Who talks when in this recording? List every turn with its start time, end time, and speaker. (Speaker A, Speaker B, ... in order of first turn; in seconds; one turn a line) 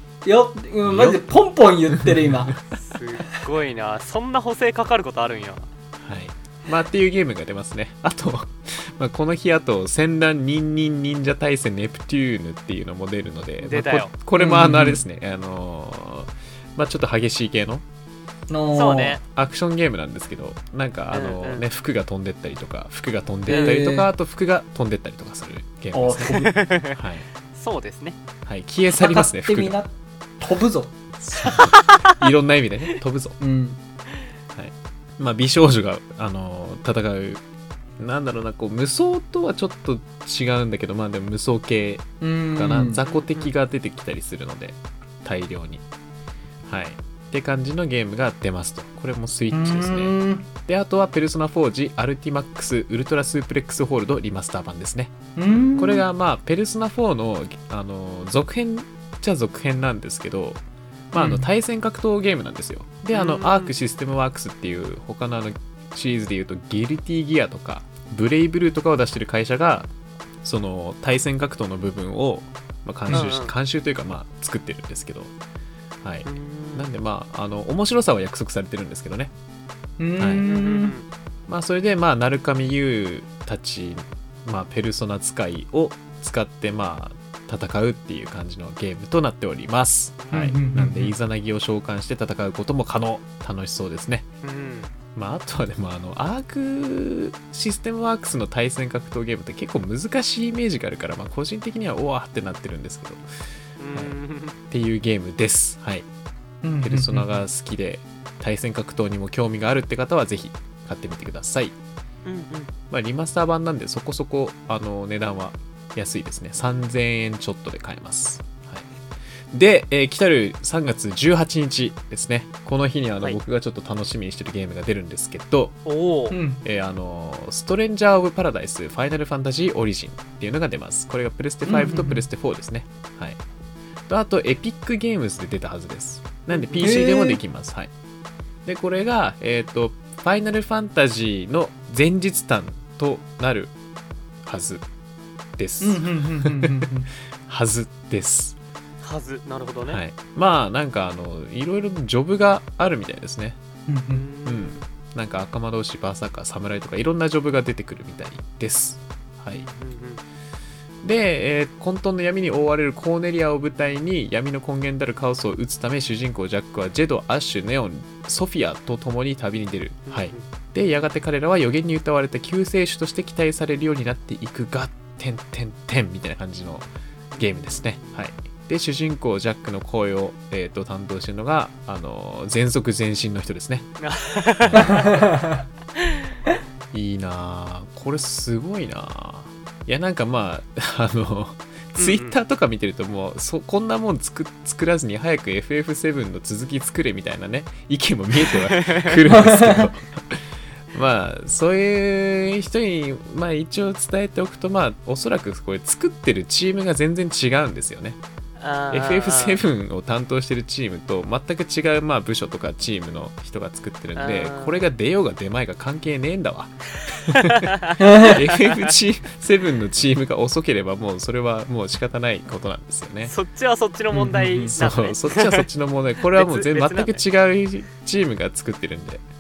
Speaker A: 0.2-2.5
Speaker B: 0.8-1.2
Speaker B: 1.9-2.5
Speaker C: 2.7-5.7
Speaker B: 6.0-17.9
Speaker C: 13.6-14.1
Speaker A: 14.3-15.0
Speaker A: 18.5-19.2
Speaker C: 18.7-19.2
Speaker B: 19.3-27.3
Speaker C: 21.1-21.6
Speaker A: 23.5-24.1
Speaker A: 25.9-26.6
Speaker C: 26.2-28.2
Speaker B: 28.5-29.8
Speaker A: 28.9-30.9
Speaker B: 31.2-33.4
Speaker C: 31.4-32.2
Speaker A: 33.4-33.8
Speaker B: 34.5-37.4
Speaker B: 38.0-45.8
Speaker A: 42.2-43.0
Speaker C: 43.0-43.5
Speaker B: 46.7-55.1
Speaker A: 49.5-50.5
Speaker A: 55.4-56.0
Speaker B: 55.8-69.9
Speaker A: 61.1-61.5
Speaker C: 63.1-63.7
Speaker B: 70.4-75.3
Speaker C: 73.1-73.5
Speaker B: 76.0-79.3
Speaker C: 76.2-76.9
Speaker A: 80.0-81.0
Speaker B: 80.2-80.5
Speaker C: 80.4-81.1
Speaker B: 81.5-94.3
Speaker C: 90.2-90.8
Speaker A: 90.3-91.2
Speaker C: 94.4-94.9
Speaker B: 95.2-103.2
Speaker C: 103.8-104.6
Speaker B: 104.7-106.1
Speaker A: 106.6-107.4
Speaker B: 106.8-111.8
Speaker C: 112.2-112.7
Speaker B: 112.9-118.9
Speaker B: 119.5-125.8
Speaker C: 125.9-126.4
Speaker A: 126.3-126.6
Speaker B: 126.6-133.4
Speaker A: 131.7-132.3
Speaker B: 134.1-137.9
Speaker C: 136.5-136.9
Speaker A: 136.8-137.4
Speaker B: 138.7-143.7
Speaker B: 144.4-144.8
Speaker B: 145.6-146.9
Speaker A: 145.8-147.1
Speaker B: 147.4-148.6
Speaker C: 149.0-150.0
Speaker B: 149.9-153.6
Speaker A: 153.9-154.2
Speaker C: 154.1-154.9
Speaker B: 154.4-159.7
Speaker C: 159.6-160.2
Speaker B: 161.0-183.9
Speaker C: 170.1-170.4
Speaker C: 177.3-178.2
Speaker C: 184.0-185.2
Speaker B: 184.6-185.0
Speaker A: 184.8-185.6
Speaker B: 186.9-208.2
Speaker C: 192.0-192.4
Speaker C: 198.5-199.2
Speaker A: 199.3-199.9
Speaker C: 208.6-209.6
Speaker B: 208.9-216.8
Speaker C: 214.2-214.8
Speaker C: 217.1-218.8
Speaker B: 217.3-217.7
Speaker A: 218.0-218.4
Speaker B: 218.3-223.3
Speaker C: 223.2-225.7
Speaker A: 224.1-224.8
Speaker B: 224.8-229.2
Speaker C: 226.3-227.2